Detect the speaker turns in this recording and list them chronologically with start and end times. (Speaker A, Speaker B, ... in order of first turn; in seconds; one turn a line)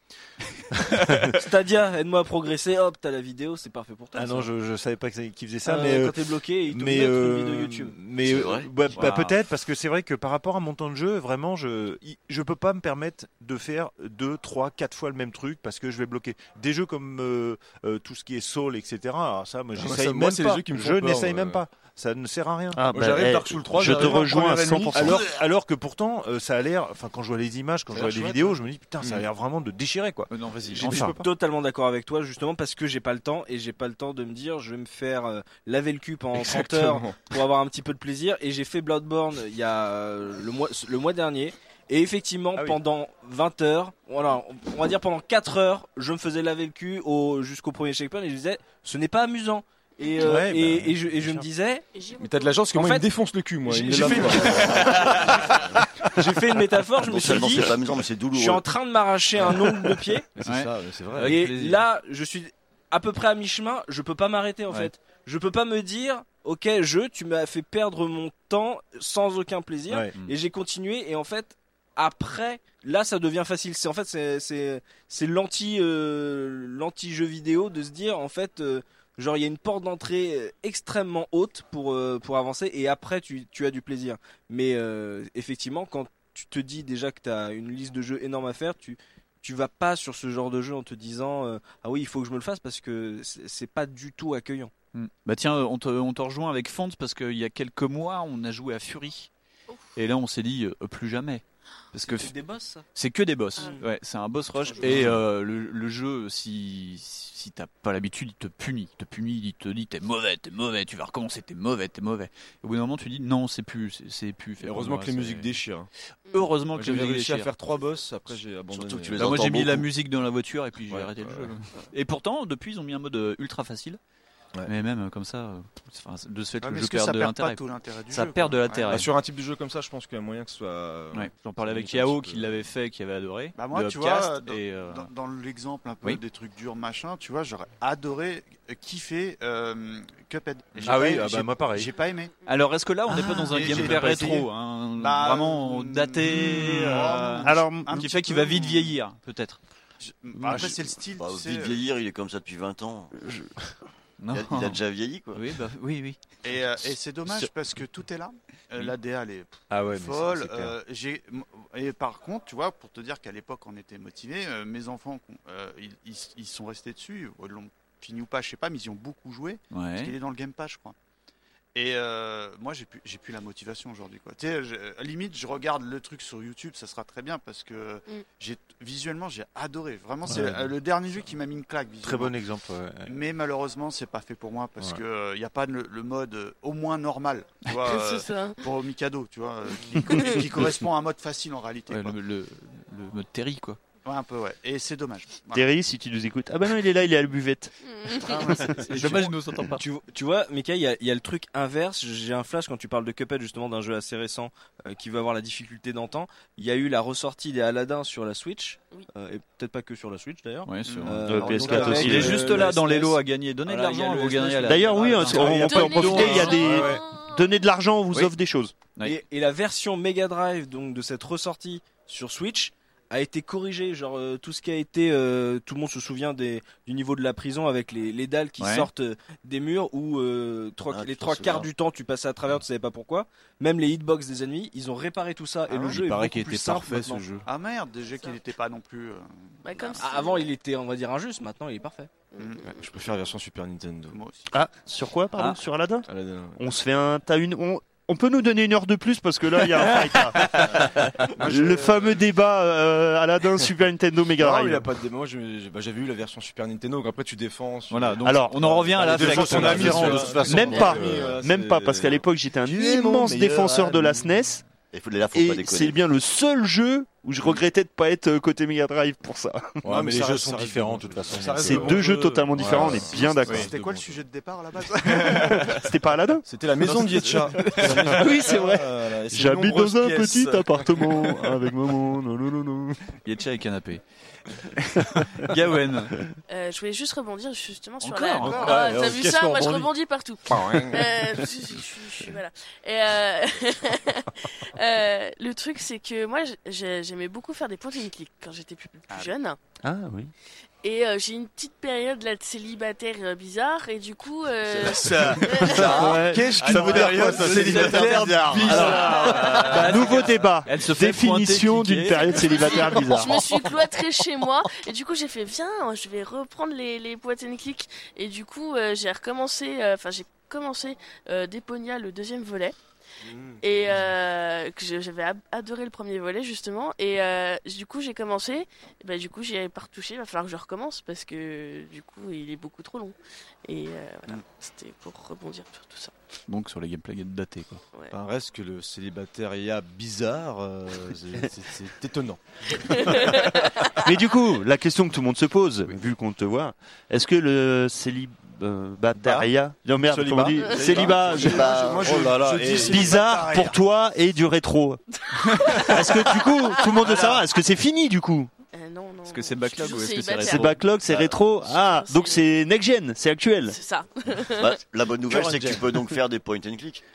Speaker A: 0.8-1.4
Speaker B: 1.4-4.5
Speaker A: 4.1-22.9
Speaker B: 5.6-8.0
Speaker C: 8.2-8.7
Speaker D: 8.9-9.4
Speaker E: 19.8-21.6
Speaker F: 22.8-25.2
Speaker E: 22.9-25.3
Speaker A: 23.8-24.2
Speaker A: 24.9-31.3
Speaker E: 27.9-29.2
Speaker D: 30.3-31.2
Speaker B: 31.0-51.9
Speaker E: 36.4-37.2
Speaker G: 50.0-50.4
Speaker A: 50.2-51.5
Speaker G: 51.9-52.6
Speaker E: 52.1-55.7
Speaker B: 52.7-53.1
Speaker B: 53.6-55.6
Speaker B: 56.2-60.3
Speaker C: 57.0-58.7
Speaker E: 60.4-61.5
Speaker D: 60.4-61.8
Speaker B: 61.2-94.7
Speaker D: 94.9-99.3
Speaker D: 100.0-102.3
Speaker B: 101.9-102.8
Speaker D: 102.9-115.5
Speaker B: 103.6-103.9
Speaker E: 104.8-105.2
Speaker E: 114.6-115.9
Speaker D: 116.3-117.5
Speaker E: 116.8-119.5
Speaker C: 118.7-119.9
Speaker D: 119.2-124.0
Speaker E: 120.9-121.5
Speaker D: 124.7-129.1
Speaker H: 126.6-129.0
Speaker E: 128.9-132.6
Speaker D: 131.1-135.1
Speaker H: 133.6-142.3
Speaker A: 140.8-141.9
Speaker D: 142.5-149.6
Speaker F: 143.1-143.7
Speaker H: 143.5-148.9
Speaker A: 143.7-144.2
Speaker F: 146.4-148.1
Speaker H: 150.0-151.8
Speaker F: 150.4-150.8
Speaker A: 150.5-150.7
Speaker C: 151.2-153.2
Speaker D: 154.2-154.8
Speaker C: 154.3-155.4
Speaker D: 155.3-156.2
Speaker H: 156.4-170.9
Speaker A: 159.7-160.8
Speaker D: 169.7-170.1
Speaker H: 171.8-182.3
Speaker A: 180.2-180.7
Speaker A: 182.0-183.2
Speaker H: 183.1-192.2
Speaker G: 187.8-188.6
Speaker D: 191.9-193.8
Speaker H: 194.1-195.7
Speaker F: 195.5-198.8
Speaker G: 197.8-198.4
Speaker H: 198.2-199.2
Speaker D: 198.7-199.8
Speaker B: 198.9-216.5
Speaker D: 210.7-216.7
Speaker H: 210.9-211.2
Speaker F: 211.2-212.7
Speaker F: 214.7-218.8
Speaker G: 215.6-217.4
Speaker A: 216.2-217.0
Speaker B: 219.0-237.3
Speaker D: 228.6-228.9
Speaker C: 230.9-231.7
Speaker H: 235.7-236.0
Speaker E: 235.9-237.5
Speaker H: 237.4-240.0
Speaker G: 239.6-240.5
Speaker B: 240.0-242.3
Speaker G: 242.3-242.7
Speaker H: 242.4-242.7
Speaker E: 242.6-244.2
Speaker H: 244.1-244.5
Speaker F: 244.5-246.1
Speaker E: 246.1-246.6
Speaker F: 246.6-254.9
Speaker E: 251.3-252.2
Speaker E: 254.4-264.3
Speaker D: 257.9-261.0
Speaker F: 258.2-258.7
Speaker A: 259.0-261.4
Speaker F: 259.4-264.6
Speaker C: 264.9-266.0
Speaker F: 265.3-269.9
Speaker A: 269.9-273.1
Speaker E: 269.9-274.3
Speaker F: 271.6-273.7
Speaker H: 273.5-275.8
Speaker D: 275.2-275.7
Speaker F: 275.3-276.4
Speaker E: 276.5-281.5
Speaker D: 276.8-278.6
Speaker F: 277.8-283.1
Speaker D: 283.2-284.0
Speaker D: 284.6-286.2
Speaker G: 286.5-299.6
Speaker D: 288.0-288.8
Speaker A: 288.4-289.9
Speaker E: 290.5-291.1
Speaker F: 299.8-300.3
Speaker G: 300.8-306.0
Speaker E: 304.8-309.9
Speaker F: 305.7-313.6
Speaker C: 305.8-306.2
Speaker A: 306.5-307.9
Speaker D: 306.6-313.1
Speaker C: 307.1-309.2
Speaker G: 312.5-322.8
Speaker E: 323.2-323.9
Speaker G: 323.6-336.1
Speaker D: 336.5-337.8
Speaker E: 338.1-343.4
Speaker G: 342.8-344.0
Speaker F: 343.9-351.7
Speaker E: 349.2-349.5
Speaker E: 350.0-353.8
Speaker A: 350.8-353.1
Speaker C: 351.3-352.4
Speaker F: 352.8-355.0
Speaker G: 355.6-356.1
Speaker F: 355.6-358.5
Speaker H: 357.0-357.4
Speaker G: 358.7-360.8
Speaker D: 359.3-360.8
Speaker F: 360.4-363.8
Speaker C: 361.1-361.4
Speaker G: 361.7-362.4
Speaker G: 363.7-364.8
Speaker C: 364.6-367.0
Speaker A: 365.3-365.9